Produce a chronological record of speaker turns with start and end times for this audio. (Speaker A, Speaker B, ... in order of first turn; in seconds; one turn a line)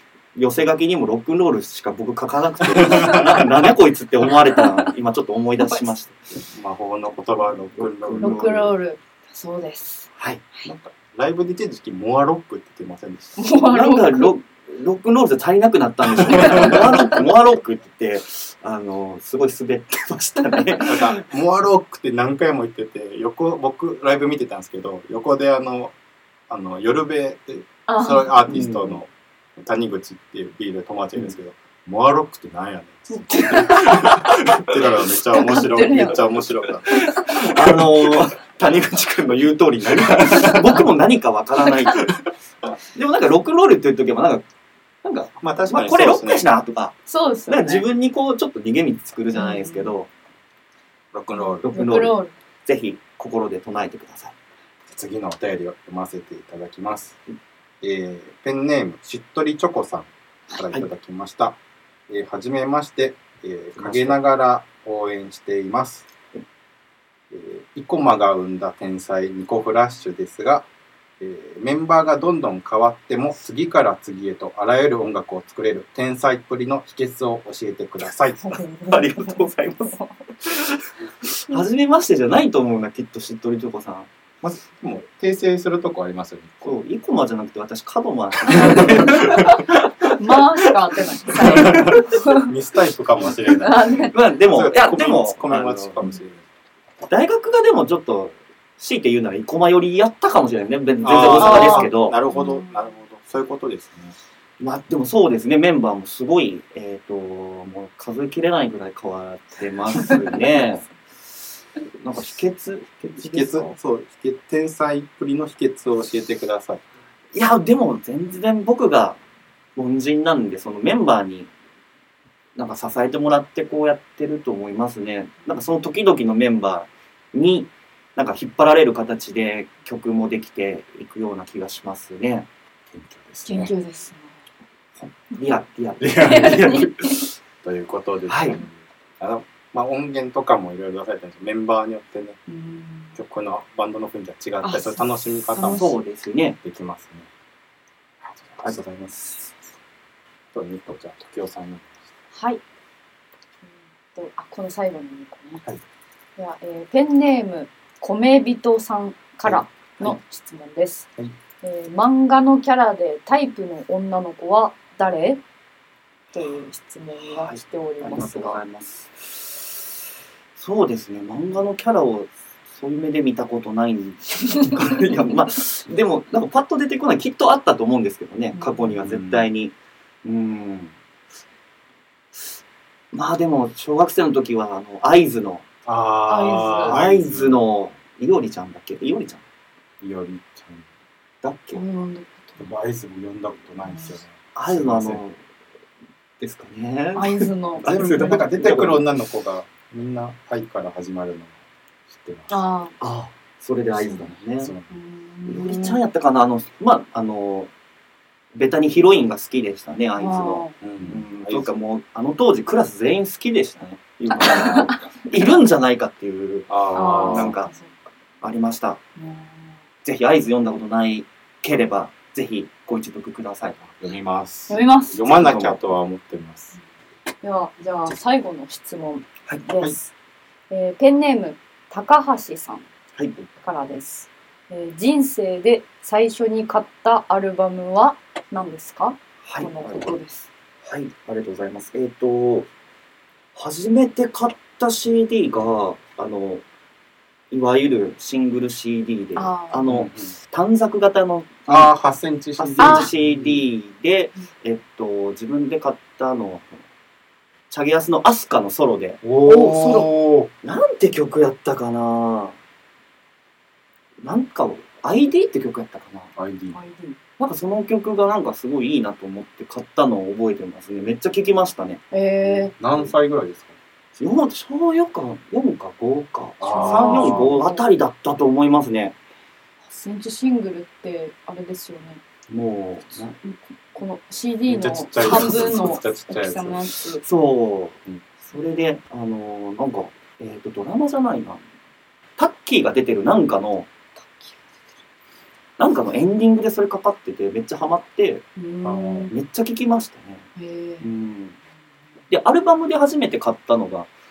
Speaker A: 0.3-6.3
Speaker B: 2.7-3.7
Speaker C: 5.6-5.9
Speaker B: 6.5-8.5
Speaker A: 7.7-8.7
Speaker C: 8.2-10.7
Speaker A: 10.2-10.4
Speaker B: 10.6-13.4
Speaker C: 13.4-14.3
Speaker A: 13.7-21.2
Speaker C: 16.3-17.0
Speaker B: 16.3-16.8
Speaker B: 20.8-25.9
Speaker B: 26.5-38.2
Speaker C: 27.9-28.4
Speaker A: 28.5-29.0
Speaker C: 33.1-34.5
Speaker C: 35.3-36.3
Speaker C: 36.9-37.3
Speaker A: 37.1-42.1
Speaker B: 39.9-40.8
Speaker C: 41.7-42.0
Speaker A: 42.9-44.4
Speaker A: 45.0-47.0
Speaker B: 45.4-46.5
Speaker C: 47.1-47.9
Speaker A: 47.5-50.1
Speaker C: 49.3-49.9
Speaker B: 51.1-51.7
Speaker C: 51.4-52.3
Speaker A: 51.6-54.3
Speaker B: 54.9-57.2
Speaker B: 57.8-61.6
Speaker B: 62.1-66.1
Speaker A: 63.8-64.2
Speaker B: 67.3-70.7
Speaker B: 71.2-78.6
Speaker C: 78.4-80.1
Speaker A: 78.9-84.1
Speaker B: 84.4-86.7
Speaker A: 86.6-90.6
Speaker C: 88.5-89.6
Speaker B: 88.7-89.4
Speaker C: 90.2-92.5
Speaker B: 91.4-96.4
Speaker A: 91.5-92.0
Speaker C: 93.6-94.1
Speaker A: 94.1-96.0
Speaker A: 97.1-102.2
Speaker B: 101.0-104.2
Speaker C: 101.3-102.9
Speaker A: 104.6-110.9
Speaker A: 112.0-113.7
Speaker B: 113.2-116.8
Speaker A: 117.3-119.2
Speaker A: 119.8-121.5
Speaker A: 122.5-132.5
Speaker B: 132.9-133.7
Speaker C: 133.4-134.3
Speaker A: 135.2-136.9
Speaker B: 136.0-136.9
Speaker C: 136.2-137.2
Speaker B: 137.6-142.4
Speaker A: 138.3-138.6
Speaker C: 142.5-143.2
Speaker B: 143.2-145.9
Speaker C: 144.6-145.9
Speaker A: 145.6-146.6
Speaker B: 146.6-147.3
Speaker B: 148.3-149.4
Speaker A: 148.6-149.2
Speaker B: 150.5-151.9
Speaker C: 152.3-152.6
Speaker C: 154.1-155.6
Speaker C: 156.4-161.1
Speaker B: 159.4-160.2
Speaker C: 161.6-165.4
Speaker C: 166.3-168.6
Speaker A: 167.2-169.7
Speaker A: 170.6-180.9
Speaker C: 178.5-178.9
Speaker B: 179.0-179.5
Speaker A: 183.1-185.7
Speaker B: 185.8-187.6
Speaker C: 186.3-187.0
Speaker A: 186.8-189.4
Speaker B: 190.0-190.9
Speaker A: 191.4-191.8
Speaker C: 191.7-192.7
Speaker B: 192.6-195.2
Speaker C: 193.8-194.2
Speaker A: 194.5-195.4
Speaker A: 196.4-199.1
Speaker C: 197.1-198.4
Speaker B: 197.8-201.5
Speaker B: 202.1-202.5
Speaker C: 202.5-202.9
Speaker A: 203.0-204.7
Speaker C: 204.0-204.3
Speaker B: 204.6-204.9
Speaker C: 204.9-206.0
Speaker A: 205.5-207.7
Speaker A: 208.5-217.7
Speaker C: 210.2-210.8
Speaker B: 210.8-211.7
Speaker C: 214.3-215.6
Speaker B: 216.7-217.6
Speaker C: 216.9-218.1
Speaker A: 218.4-219.0
Speaker C: 219.2-219.8
Speaker A: 220.0-223.9
Speaker B: 223.9-226.7
Speaker C: 224.7-225.3
Speaker A: 225.2-225.8
Speaker C: 227.4-230.1
Speaker C: 230.7-232.8
Speaker A: 233.2-233.4
Speaker C: 233.6-240.5
Speaker A: 239.4-240.1
Speaker A: 240.8-242.7
Speaker A: 243.5-246.6
Speaker A: 247.5-251.9
Speaker C: 249.3-249.8
Speaker B: 249.9-250.3
Speaker B: 251.7-253.6
Speaker A: 252.6-256.8
Speaker C: 252.8-253.1
Speaker A: 257.7-262.6
Speaker B: 259.2-260.5
Speaker A: 264.2-266.3
Speaker B: 266.4-266.8
Speaker C: 266.7-267.2
Speaker A: 267.4-272.0
Speaker C: 272.1-272.7
Speaker B: 272.4-273.8
Speaker A: 274.1-279.1
Speaker B: 276.6-277.5
Speaker C: 276.6-277.8
Speaker C: 279.9-282.2
Speaker A: 282.5-283.3
Speaker C: 283.4-287.2
Speaker B: 284.7-286.8
Speaker A: 285.2-285.8
Speaker A: 287.2-291.6
Speaker A: 292.4-293.9
Speaker C: 294.2-294.7
Speaker A: 295.8-298.4
Speaker C: 298.6-299.3
Speaker B: 298.8-299.3
Speaker A: 299.3-300.5
Speaker C: 300.6-301.1
Speaker A: 301.0-301.6
Speaker A: 302.3-304.1